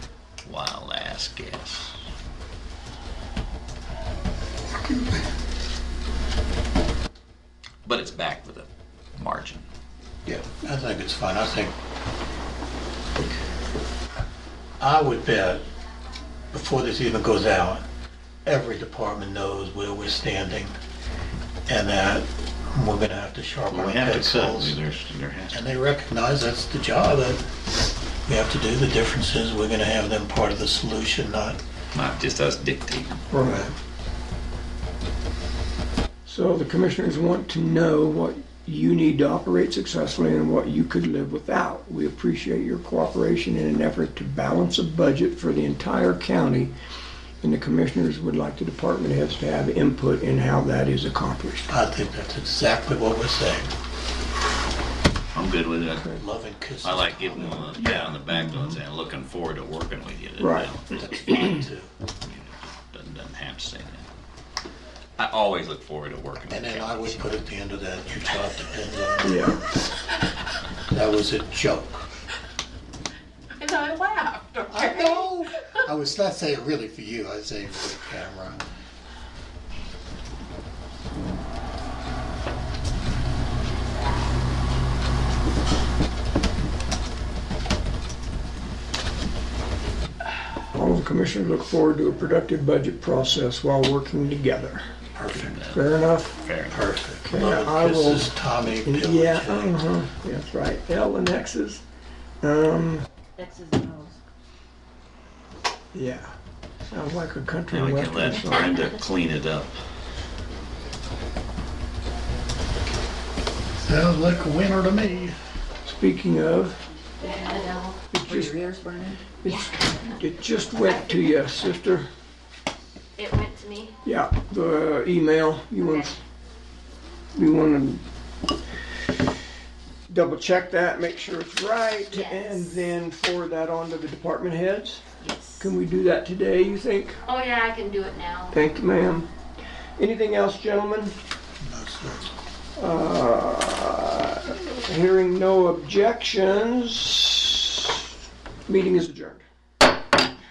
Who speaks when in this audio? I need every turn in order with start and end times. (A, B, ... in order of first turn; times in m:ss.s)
0:00.4-0:02.0 A
0:07.8-0:09.6 A
0:10.2-0:11.7 B
0:14.8-0:15.6 B
0:16.5-0:17.8 B
0:18.4-0:20.8 B
0:21.7-0:24.8 B
0:23.7-0:25.6 A
0:25.5-0:27.4 B
0:28.2-0:31.6 B
0:31.9-0:33.2 A
0:33.3-0:33.7 C
0:33.4-0:33.7 B
0:36.2-0:46.7 C
0:47.4-0:51.7 C
0:51.7-0:53.7 B
0:55.3-0:56.2 A
0:56.1-0:58.0 B
0:56.8-1:01.1 A
0:57.8-0:58.8 C
1:00.4-1:00.7 C
1:00.8-1:01.9 B
1:01.3-1:01.6 C
1:02.2-1:04.0 A
1:05.2-1:07.3 A
1:06.4-1:09.6 B
1:09.2-1:09.6 C
1:10.9-1:12.1 B
1:13.6-1:15.2 D
1:14.7-1:18.6 B
1:30.7-1:34.9 C
1:35.1-1:35.5 B
1:35.3-1:35.8 A
1:35.7-1:36.4 C
1:36.4-1:36.8 A
1:36.7-1:39.8 B
1:37.2-1:41.8 C
1:42.4-1:43.0 C
1:43.4-1:44.2 E
1:45.9-1:46.3 C
1:46.9-1:48.9 C
1:47.7-1:49.8 A
1:48.5-1:48.9 D
1:53.8-1:55.3 B
1:55.8-1:56.8 C
1:57.2-1:58.1 D
1:57.3-1:59.3 E
1:58.1-1:58.6 C
1:59.4-2:02.1 C
1:59.5-1:59.8 D
2:03.2-2:03.9 D
2:04.0-2:06.1 C
2:05.8-2:06.1 D
2:07.3-2:08.0 C
2:10.1-2:15.0 C
2:12.1-2:12.8 D
2:15.2-2:15.7 D
2:15.6-2:17.2 C
2:17.2-2:18.5 D
2:18.5-2:19.3 C
2:20.0-2:21.1 C
2:21.6-2:22.3 B
2:22.8-2:27.8 C
2:28.6-2:29.4 C